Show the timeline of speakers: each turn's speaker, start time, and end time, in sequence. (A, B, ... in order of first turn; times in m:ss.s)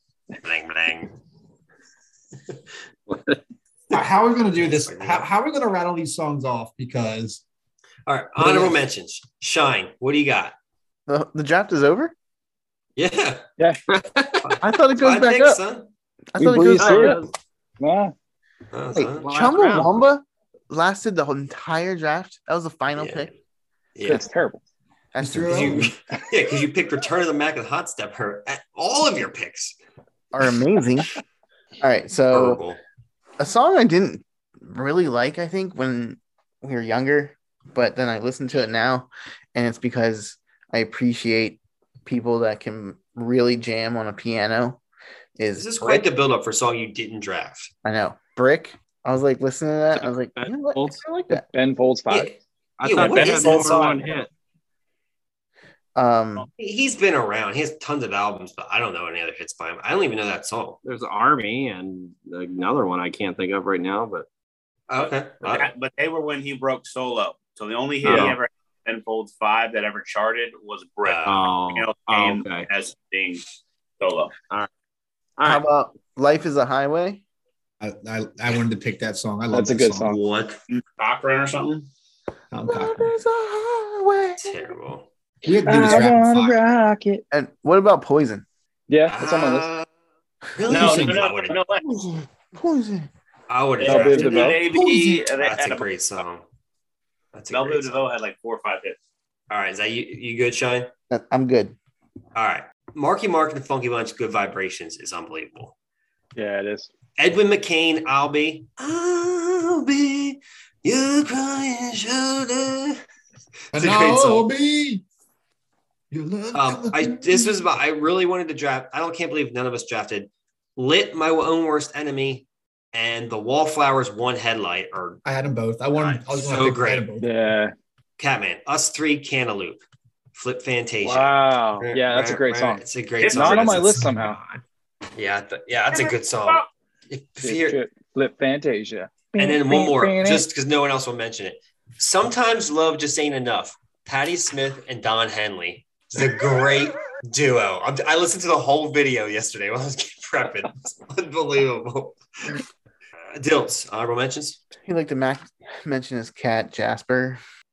0:00.4-0:01.2 A
0:03.1-0:03.4 B
0:03.9-0:07.4 C
0:04.6-0:05.3 A
0:08.1-0:10.5 A
0:08.4-0:08.7 D
0:11.1-0:12.1 D
0:13.0-0:13.4 A
0:13.9-0:14.6 B
0:14.4-0:15.9 A
0:14.6-0:15.6 D
0:16.3-0:17.2 D
0:16.4-0:17.2 E
0:16.8-0:17.3 B
0:17.8-0:18.1 E
0:18.7-0:19.3 A
0:18.9-0:23.3 D
0:19.2-0:19.9 B
0:23.0-0:23.3 A
0:23.9-0:24.2 A
0:24.0-0:24.6 E
0:25.1-0:25.9 D
0:25.2-0:25.9 C
0:25.4-0:29.8 A
0:30.3-0:31.1 D
0:31.8-0:32.6 D
0:32.3-0:32.8 A
0:33.4-0:44.8 D
0:45.4-0:46.0 D
0:45.6-0:47.7 A
0:47.8-0:51.4 D
0:49.9-0:51.0 B
0:51.5-0:52.3 E
0:52.8-0:54.3 B
0:52.8-0:54.0 A
0:53.1-0:53.8 F
0:56.0-0:56.5 D
0:56.6-1:00.8 A
1:00.8-1:04.2 B
1:04.9-1:05.7 A
1:05.4-1:13.4 F
1:08.0-1:08.4 B
1:11.0-1:11.4 A
1:11.2-1:12.7 B
1:14.0-1:14.3 F
1:15.4-1:15.6 B
1:15.4-1:17.2 D
1:17.8-1:20.2 C
1:19.5-1:20.2 E
1:20.1-1:20.6 A
1:20.7-1:21.9 F
1:22.5-1:23.1 C
1:22.6-1:24.6 D
1:24.4-1:25.1 A
1:25.4-1:26.6 C
1:25.6-1:27.2 E
1:27.3-1:28.4 D
1:28.9-1:29.7 E
1:29.1-1:29.8 A
1:30.6-1:31.6 A
1:30.6-1:31.2 C
1:30.6-1:31.8 F
1:32.5-1:33.1 D
1:33.5-1:36.4 A
1:33.8-1:35.9 F
1:33.8-1:34.7 E
1:34.7-1:35.2 C
1:37.3-1:38.1 A
1:37.5-1:39.0 F
1:39.5-1:40.9 A
1:41.1-1:41.8 D
1:42.3-1:45.7 A
1:46.4-1:46.9 E
1:47.2-1:53.0 A
1:53.7-1:54.5 A
1:53.7-1:55.0 C
1:56.1-1:57.6 C
1:56.5-2:05.2 A
2:05.2-2:07.3 C
2:05.9-2:07.0 A
2:07.2-2:07.7 E
2:08.2-2:09.8 A
2:10.3-2:14.3 A
2:11.0-2:14.4 E
2:13.2-2:13.7 F
2:15.1-2:17.8 A
2:15.9-2:16.6 F
2:17.4-2:20.5 E
2:19.4-2:32.6 A
2:33.3-2:34.6 A
2:34.8-2:37.4 D